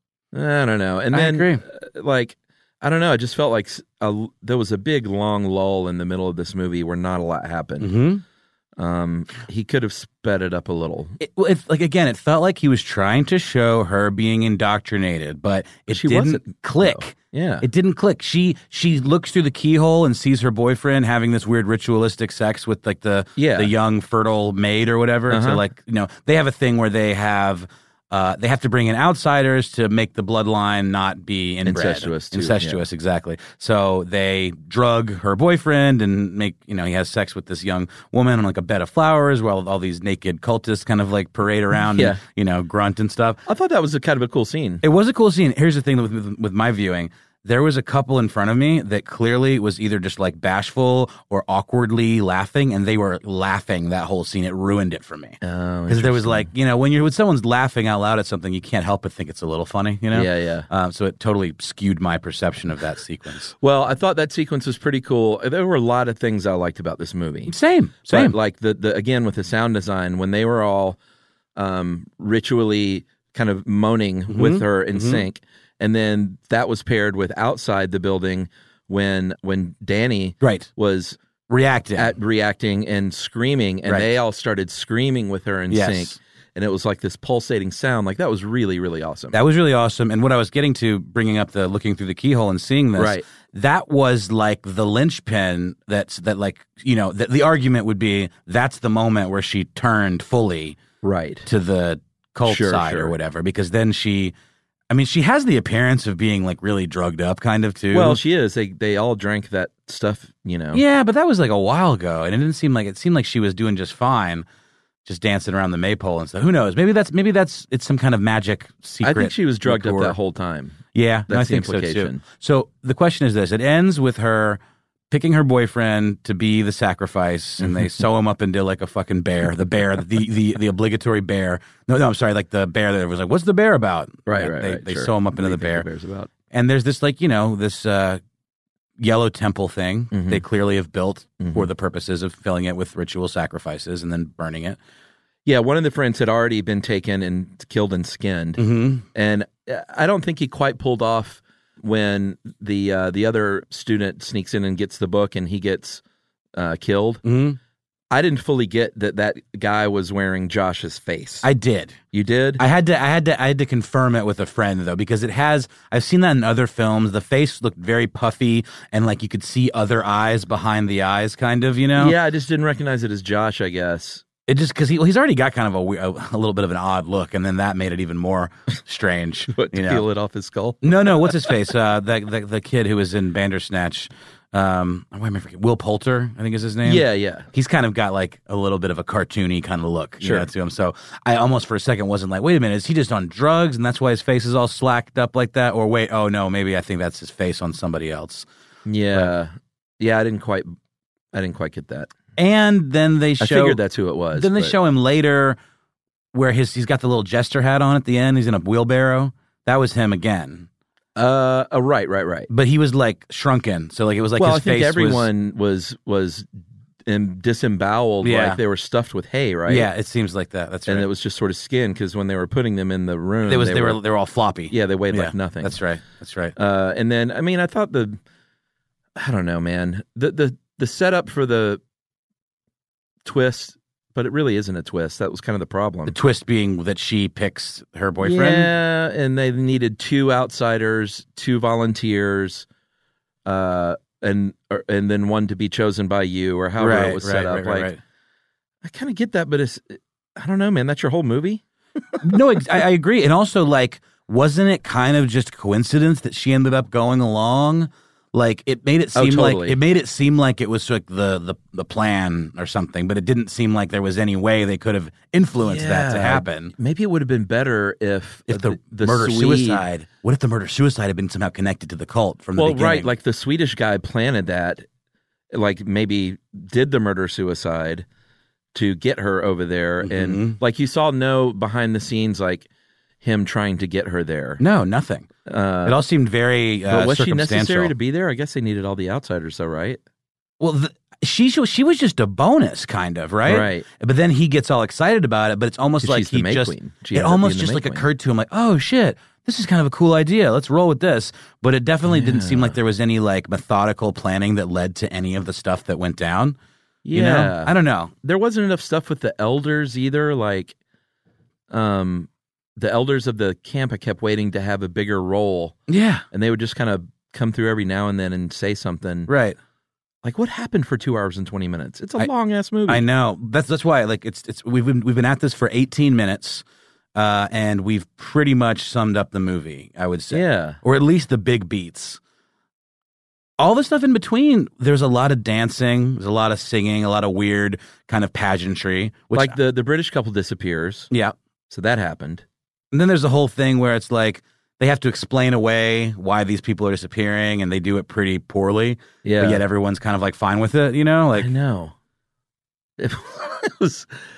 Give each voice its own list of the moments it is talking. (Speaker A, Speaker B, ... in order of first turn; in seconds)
Speaker A: 0.3-7.9, 8.8-11.2, 15.9-17.7, 23.4-23.7, 25.3-25.6, 31.6-32.8, 41.8-42.2, 43.5-44.8, 55.4-56.5, 60.1-60.7, 63.6-67.5, 68.1-71.0, 71.6-81.2, 82.0-89.4, 93.0-93.2, 101.0-101.5, 102.5-103.1, 107.9-110.8, 119.0-122.2, 127.6-127.9, 134.3-136.3, 140.1-140.4, 141.4-141.7, 145.5-148.6, 149.1-156.0, 156.6-157.2, 158.1-161.5, 162.1-162.6, 172.0-174.2, 179.5-181.6, 186.8-187.5, 190.2-190.5, 198.9-200.7, 201.3-202.1, 203.4-204.8, 211.2-212.5, 214.4-216.5, 217.1-219.9, 220.9-224.0, 224.7-225.8, 226.6-228.2, 229.2-231.8, 233.2-236.2, 238.2-242.7, 243.5-247.9, 248.8-251.6, 259.1-259.8, 265.6-269.8, 272.6-274.9, 275.5-278.1, 278.7-282.7, 283.2-284.6, 285.5-286.0, 286.9-290.0, 293.5-293.9, 296.0-298.1, 302.1-302.8, 307.1-310.8, 311.7-315.8, 316.3-319.3, 320.2-323.0, 330.3-330.8, 339.3-341.1, 341.7-342.4, 349.2-349.6, 351.4-351.9, 353.0-354.2
Speaker B: 1.1-1.6, 7.8-8.2, 11.2-43.4, 44.8-63.5, 67.5-68.3, 74.3-75.2, 80.4-80.7, 81.5-82.2, 83.9-84.1, 85.7-86.2, 89.3-100.8, 101.5-104.3, 104.9-108.2, 110.7-114.5, 115.0-120.2, 120.9-135.9, 136.5-138.2, 139.0-144.8, 148.6-149.1, 157.2-157.6, 161.4-162.0, 162.6-172.2, 174.5-180.0, 180.8-198.5, 202.4-203.8, 204.3-205.6, 206.3-210.7, 212.5-215.3, 218.2-218.6, 219.7-221.1, 223.5-226.5, 236.1-238.7, 246.8-248.0, 252.2-266.7, 268.5-273.1, 280.0-280.6, 284.6-285.3, 285.9-287.9, 290.6-306.6, 307.1-308.1, 315.9-316.2, 319.3-319.6, 322.9-326.6, 327.1-332.2, 333.6-339.6, 341.1-341.4, 342.9-351.5